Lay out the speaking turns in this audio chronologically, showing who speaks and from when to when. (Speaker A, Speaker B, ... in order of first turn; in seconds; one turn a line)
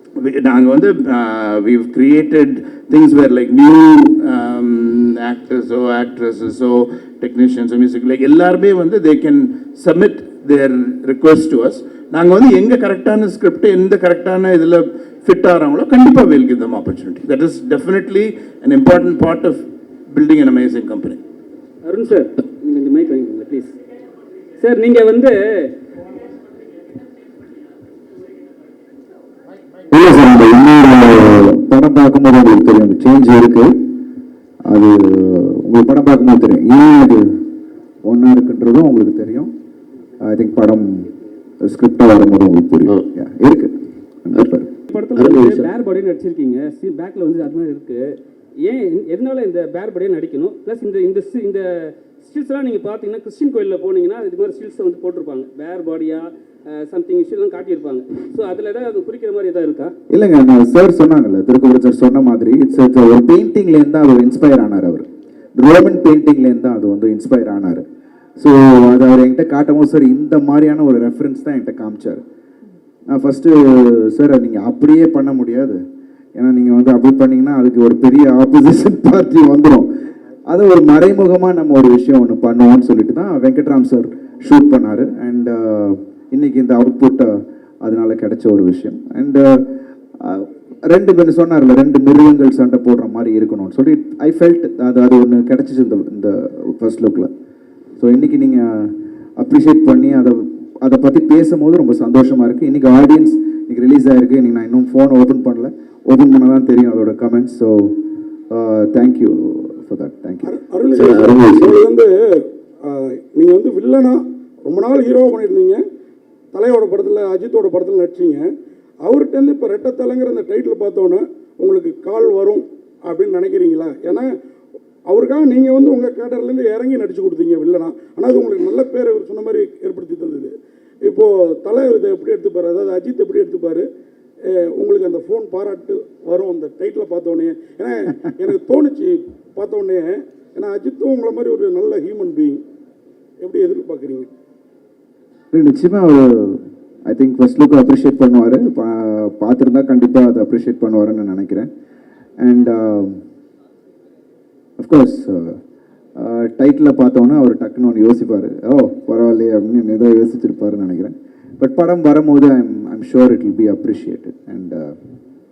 Speaker A: 0.2-21.2
Speaker B: 21.8-23.8
Speaker B: 24.6-25.7
Speaker C: 29.9-33.8
Speaker C: 34.7-37.3
Speaker C: 38.0-39.5
Speaker C: 40.2-41.1
Speaker C: 41.6-43.7
Speaker C: 44.2-44.7
Speaker B: 44.9-48.0
Speaker B: 48.6-51.7
Speaker B: 52.2-59.9
Speaker C: 60.1-67.8
Speaker C: 68.4-72.2
Speaker C: 73.1-75.8
Speaker C: 76.4-79.9
Speaker C: 80.5-89.7
Speaker C: 90.2-97.3
Speaker C: 98.0-108.0
Speaker C: 108.5-110.5
Speaker D: 110.4-112.3
Speaker D: 112.8-115.8
Speaker D: 116.5-118.5
Speaker D: 119.0-124.3
Speaker D: 125.1-130.5
Speaker D: 131.1-133.8
Speaker D: 134.8-142.6
Speaker D: 143.4-144.3
Speaker C: 145.5-151.7
Speaker C: 152.4-153.2
Speaker C: 154.8-155.6
Speaker C: 156.2-164.9